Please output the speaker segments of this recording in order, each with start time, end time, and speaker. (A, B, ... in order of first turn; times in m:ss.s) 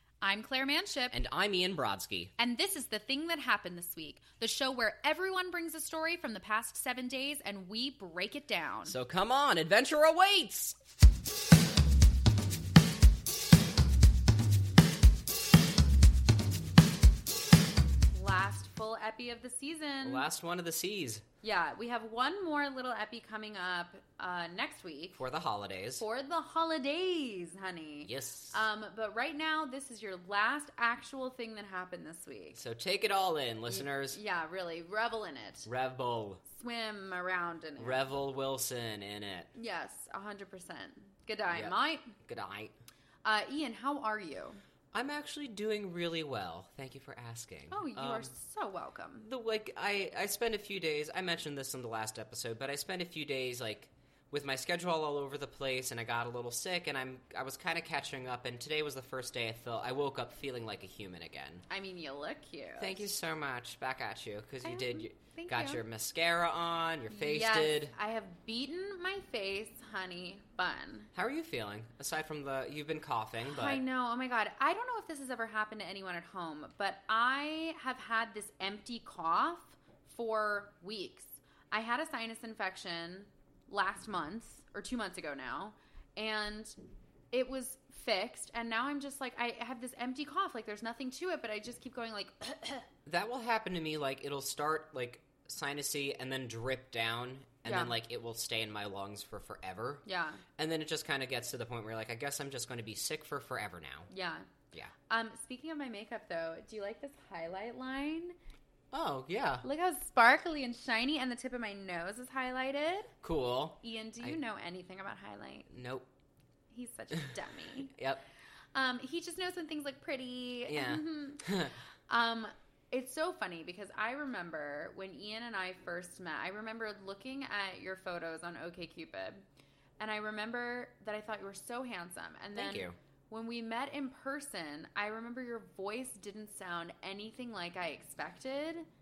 0:00.2-0:01.2 A
0:01.1-0:02.3 B
0:02.4-0:09.0 A
0:08.9-0:10.8 B
0:18.1-0:20.3 A
0:20.0-0:21.2 B
0:21.4-0:25.2 A
0:25.2-0:26.0 B
0:26.0-0:32.6 A
0:28.0-0:28.6 B
0:32.5-0:34.2 B
0:33.7-0:35.7 A
0:35.7-0:36.4 B
0:36.5-0:38.0 A
0:37.8-0:39.5 B
0:39.6-0:42.2 A
0:41.5-0:42.7 B
0:43.2-0:44.6 A
0:44.9-0:48.3 B
0:47.7-0:49.3 A
0:49.2-1:01.7 B
1:01.7-1:03.1 A
1:02.8-1:07.9 B
1:04.6-1:05.8 A
1:07.1-1:11.1 A
1:11.1-1:13.8 B
1:13.5-1:26.8 A
1:27.3-1:32.9 A
1:33.1-1:40.0 B
1:37.6-1:38.0 A
1:40.1-1:40.4 A
1:40.6-1:44.1 B
1:44.1-1:44.5 A
1:45.1-1:48.4 A
1:48.9-1:49.6 B
1:49.6-1:53.1 A
1:53.2-1:54.4 B
1:53.8-1:55.7 A
1:55.7-1:56.1 B
1:56.7-1:57.9 A
1:57.9-1:58.2 B
1:58.8-2:01.6 A
2:00.7-2:01.8 B
2:02.1-2:09.4 A
2:10.0-2:18.9 A
2:12.6-2:13.0 B